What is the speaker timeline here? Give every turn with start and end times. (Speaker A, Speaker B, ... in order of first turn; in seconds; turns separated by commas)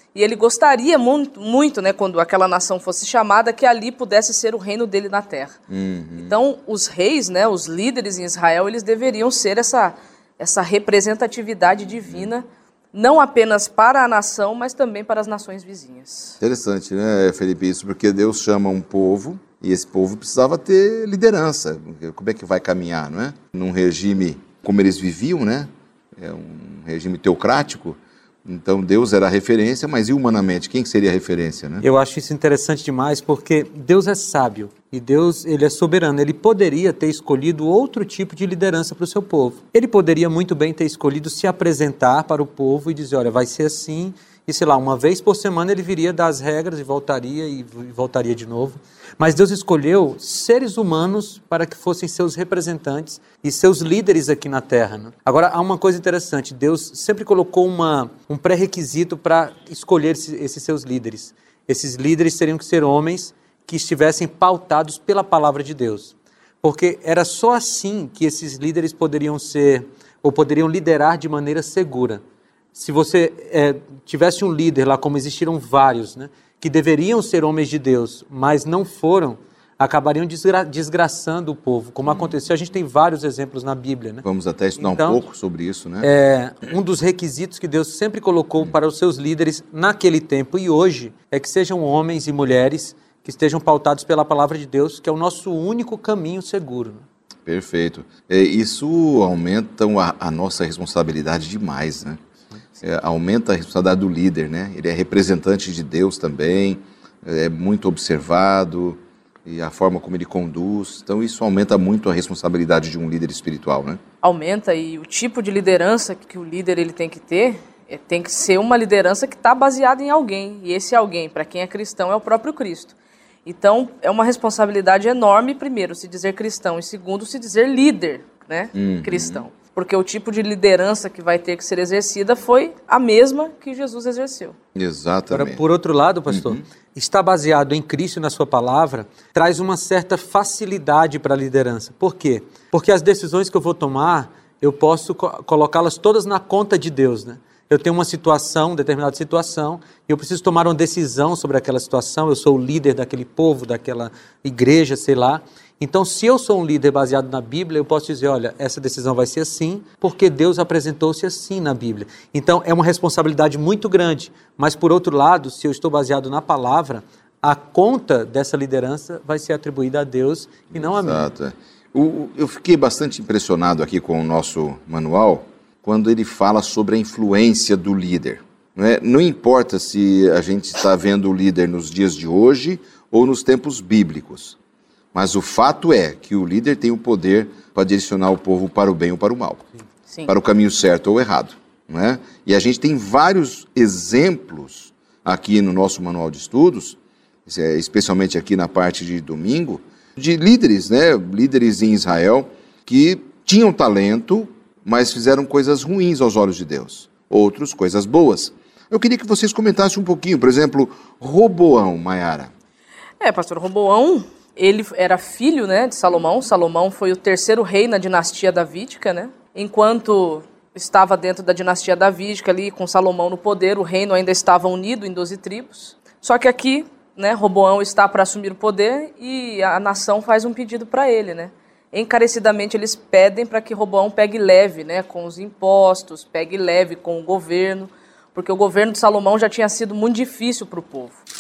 Speaker A: 0.1-5.6, Speaker B: 5.7-6.3, Speaker A: 6.2-16.4, Speaker B: 16.4-31.8, Speaker C: 31.8-72.2, Speaker C: 72.7-84.2, Speaker B: 82.1-82.3, Speaker B: 84.2-86.1, Speaker C: 84.8-85.2, Speaker C: 86.0-97.0, Speaker B: 97.5-102.2, Speaker B: 102.8-114.0, Speaker A: 114.2-123.0, Speaker A: 123.5-134.6, Speaker B: 128.8-129.4, Speaker B: 134.8-135.6, Speaker C: 135.3-171.2, Speaker B: 136.3-136.6, Speaker B: 170.7-184.6, Speaker B: 185.1-189.7, Speaker B: 190.3-212.5, Speaker A: 213.2-241.2